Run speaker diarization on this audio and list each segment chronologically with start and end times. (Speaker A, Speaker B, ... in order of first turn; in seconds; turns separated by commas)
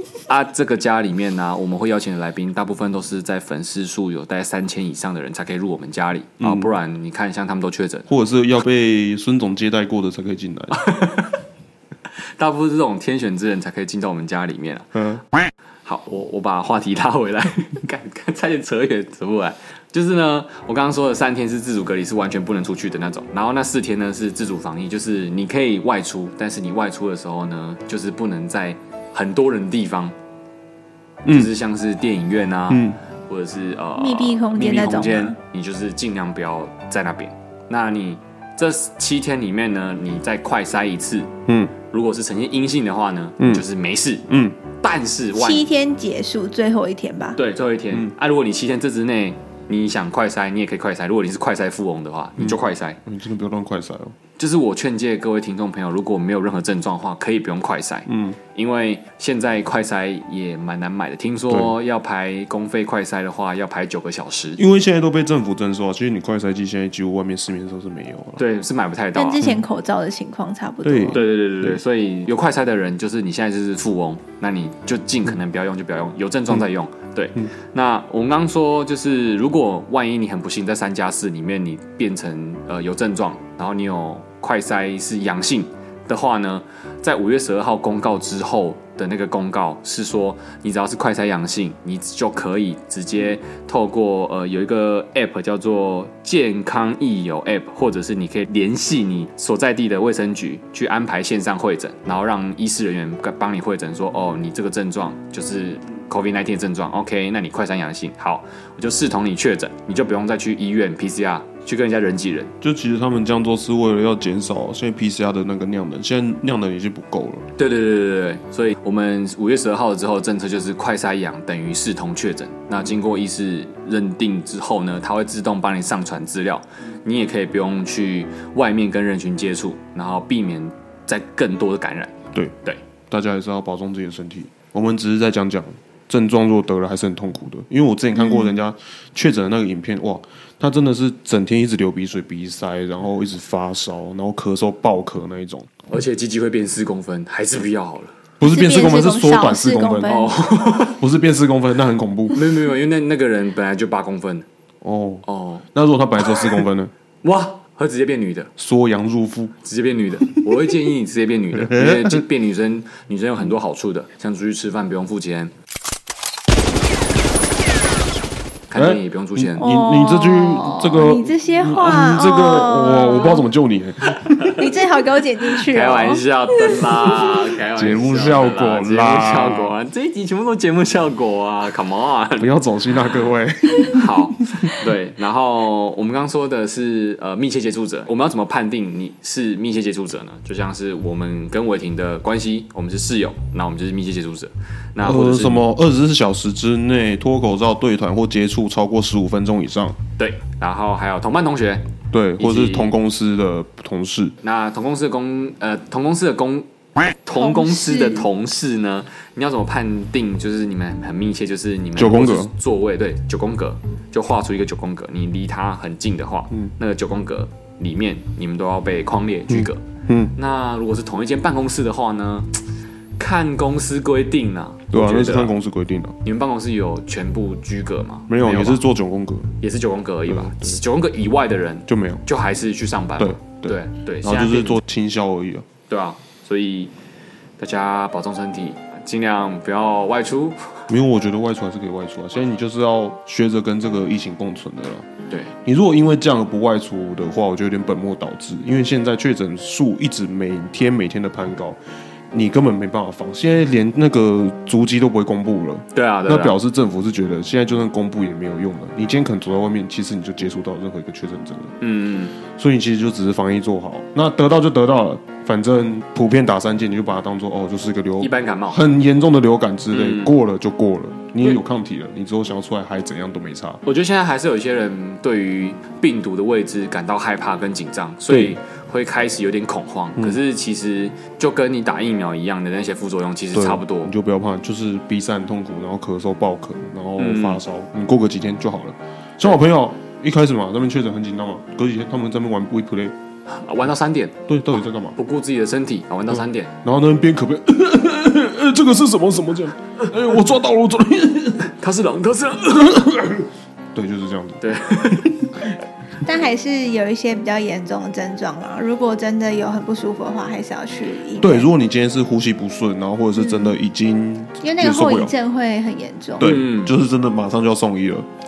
Speaker A: 0.3-8.1, Speaker B: 6.4-6.7, Speaker B: 8.1-10.8, Speaker A: 10.7-11.4, Speaker A: 12.4-15.0, Speaker B: 14.9-15.2, Speaker A: 15.8-30.1, Speaker B: 31.3-31.5, Speaker A: 31.3-41.3, Speaker B: 32.7-33.0, Speaker C: 34.0-35.4, Speaker B: 41.5-41.7, Speaker A: 41.9-45.6, Speaker B: 43.4-43.6, Speaker B: 44.3-44.6, Speaker C: 45.4-47.4, Speaker A: 47.4-53.0, Speaker B: 52.4-54.1, Speaker A: 54.4-64.6, Speaker B: 58.1-58.4, Speaker B: 64.6-68.4, Speaker A: 68.4-69.4, Speaker C: 69.2-71.2, Speaker B: 70.8-71.8, Speaker A: 71.1-112.5, Speaker B: 112.6-117.5, Speaker A: 117.6-132.8, Speaker B: 133.1-145.7, Speaker A: 145.9-148.1, Speaker B: 148.4-150.1, Speaker C: 148.4-150.3, Speaker A: 150.1-151.0, Speaker B: 150.8-152.4, Speaker A: 152.3-154.5, Speaker B: 154.8-156.9, Speaker A: 155.3-155.7, Speaker A: 157.2-158.5, Speaker B: 158.6-159.5, Speaker A: 159.7-165.5, Speaker B: 161.6-162.2, Speaker A: 168.7-169.7, Speaker B: 168.7-174.7, Speaker C: 169.6-173.4, Speaker A: 174.2-174.5, Speaker C: 174.6-177.3, Speaker A: 175.7-182.5, Speaker B: 177.7-179.7, Speaker B: 182.4-184.7, Speaker A: 183.9-195.7, Speaker B: 195.0-200.0, Speaker A: 200.2-202.9, Speaker B: 202.1-204.3, Speaker A: 204.4-219.8, Speaker C: 207.4-208.3, Speaker B: 212.0-212.5, Speaker B: 219.5-220.3, Speaker A: 220.4-222.6, Speaker A: 223.2-225.5, Speaker B: 224.9-226.2, Speaker A: 226.2-228.8, Speaker B: 228.3-229.5, Speaker A: 229.6-234.8, Speaker B: 230.3-230.8, Speaker B: 231.9-232.2, Speaker B: 233.2-235.7, Speaker A: 235.9-236.9, Speaker A: 237.6-240.9, Speaker B: 240.9-245.1, Speaker B: 245.7-251.8, Speaker B: 252.3-261.8, Speaker A: 255.9-256.6, Speaker A: 261.8-262.4, Speaker B: 262.5-273.8, Speaker A: 268.2-268.8, Speaker A: 269.9-270.3, Speaker A: 273.9-284.1, Speaker B: 278.3-278.6, Speaker B: 283.6-293.1, Speaker A: 287.2-287.6, Speaker A: 293.5-294.4, Speaker B: 294.5-295.2, Speaker A: 295.2-296.7, Speaker B: 296.3-301.7, Speaker A: 301.6-303.1, Speaker B: 302.9-305.4, Speaker A: 304.6-305.5, Speaker C: 306.2-311.7, Speaker B: 311.4-315.3, Speaker C: 313.4-313.8, Speaker C: 314.6-316.6, Speaker B: 316.4-318.3, Speaker A: 316.4-316.9